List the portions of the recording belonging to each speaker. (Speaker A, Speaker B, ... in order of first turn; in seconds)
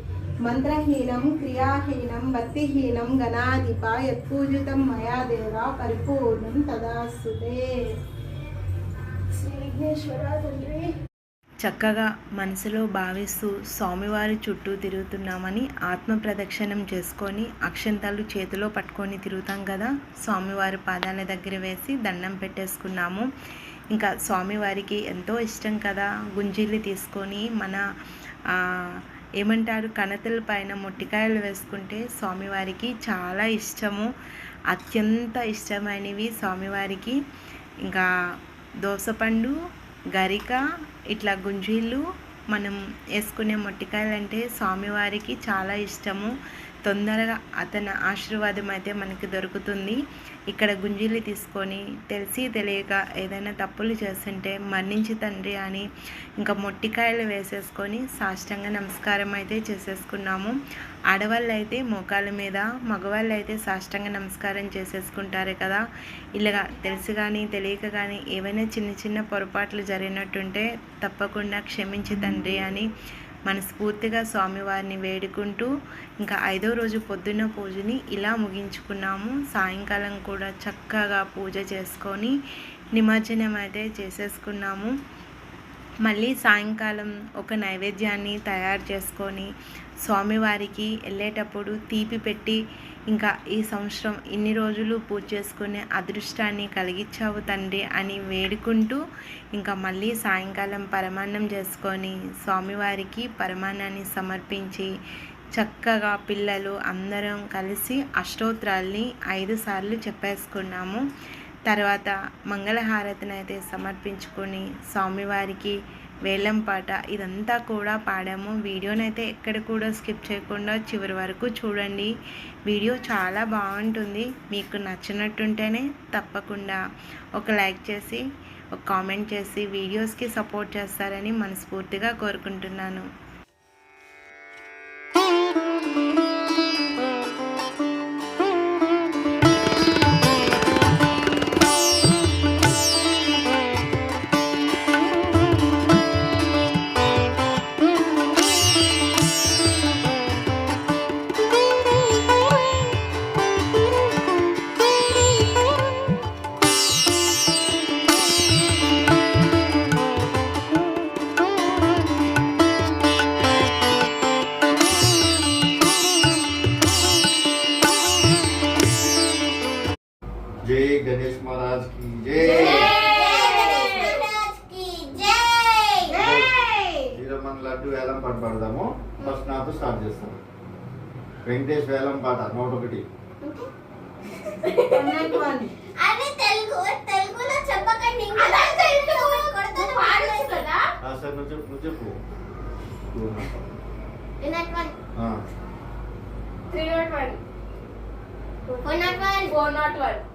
Speaker A: 0.5-7.7, 9.3-10.9, 176.1-177.2, 184.8-185.7
Speaker B: 11.6-23.3, 23.9-27.8, 28.5-34.1, 34.7-37.2, 38.9-39.5, 40.1-40.6, 41.1-46.3, 46.9-50.0, 50.5-55.9, 56.4-60.5, 61.1-65.8, 66.3-72.9, 73.5-75.7, 76.2-82.3, 83.0-84.9, 86.0-89.5, 90.0-92.6, 93.1-99.0, 99.5-104.9, 105.6-111.0, 111.7-115.8, 116.3-122.1, 122.7-126.8, 127.4-128.2, 128.8-133.1
Speaker C: 170.6-173.0, 176.2-176.5, 177.1-180.4, 181.5-183.0, 191.0-192.2, 193.1-193.6
Speaker D: 172.4-174.2, 184.4-185.4, 188.3-190.9, 196.7-197.4, 199.0-200.2
Speaker E: 172.6-176.2, 186.0-190.6, 194.4-195.0, 198.7-199.6